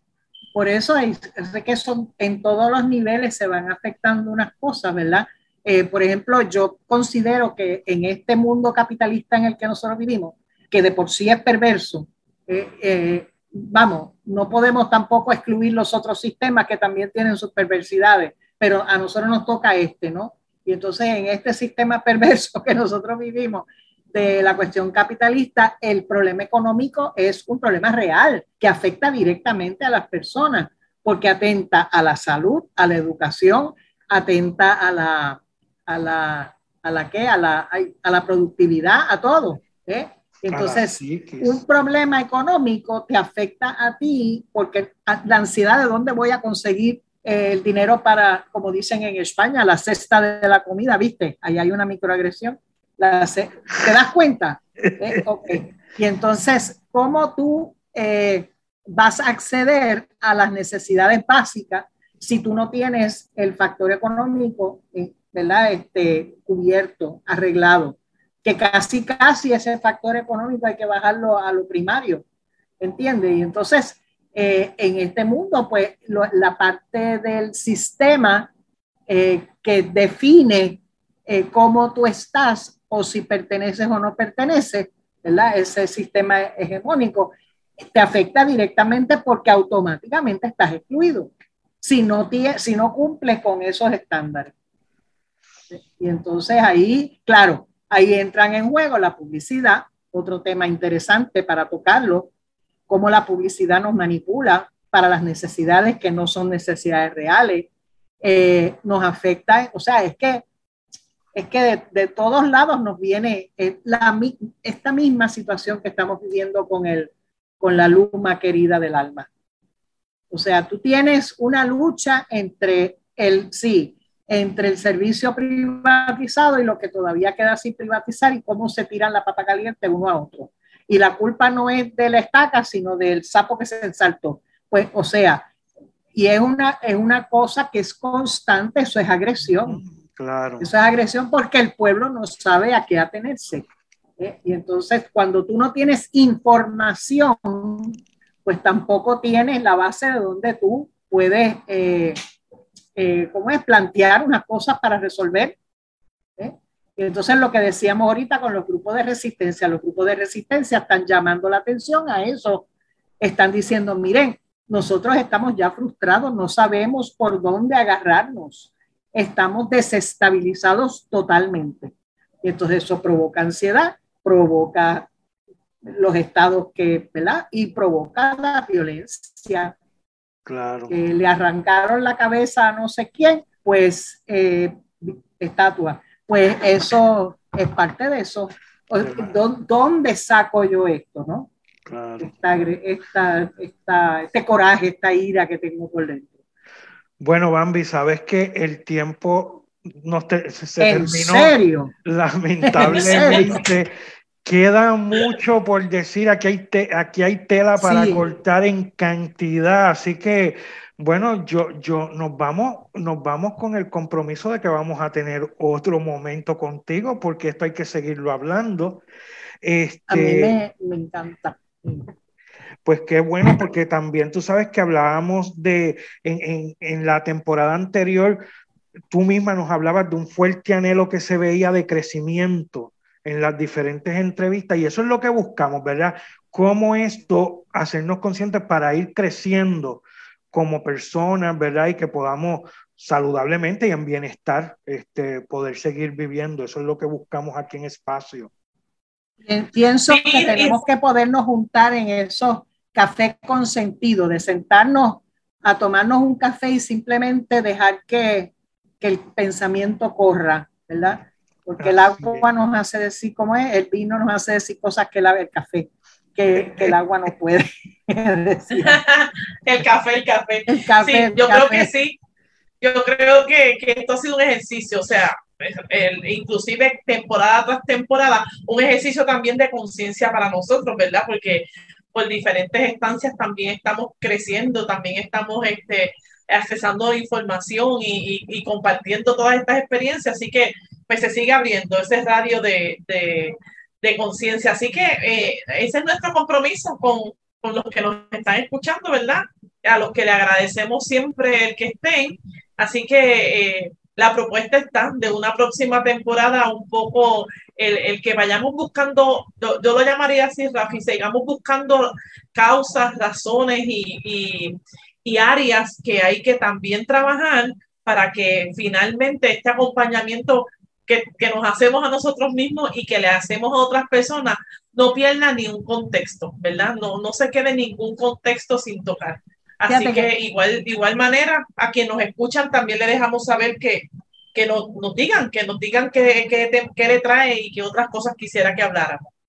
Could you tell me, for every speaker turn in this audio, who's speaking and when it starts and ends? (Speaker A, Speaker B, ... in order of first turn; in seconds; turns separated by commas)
Speaker A: 0.6-72.2, Speaker B: 40.5-41.6, Speaker A: 72.8-78.5, Speaker A: 79.1-87.3, Speaker A: 87.9-94.5, Speaker A: 95.7-102.3, Speaker A: 102.9-107.7, Speaker A: 108.2-110.5, Speaker A: 111.3-119.3, Speaker A: 120.3-135.5, Speaker A: 136.1-139.8, Speaker B: 139.4-140.7, Speaker A: 140.6-143.7, Speaker A: 144.2-152.2, Speaker A: 152.9-155.6, Speaker A: 156.4-162.7, Speaker A: 163.2-175.1, Speaker A: 175.8-179.8, Speaker B: 180.5-181.0, Speaker A: 180.9-191.5, Speaker B: 189.0-189.4, Speaker B: 191.9-192.4, Speaker A: 192.2-196.3, Speaker B: 197.2-203.9, Speaker A: 200.8-201.9, Speaker A: 202.7-203.6, Speaker C: 202.9-203.4, Speaker B: 204.4-219.0, Speaker A: 207.8-208.2, Speaker B: 219.6-220.6, Speaker A: 220.1-222.1, Speaker B: 222.8-228.4, Speaker B: 229.1-248.5, Speaker A: 249.5-269.0, Speaker C: 250.1-250.8, Speaker B: 261.8-262.5, Speaker B: 266.6-267.0, Speaker C: 268.8-272.2, Speaker A: 270.7-271.9, Speaker C: 272.8-339.3, Speaker A: 329.9-330.3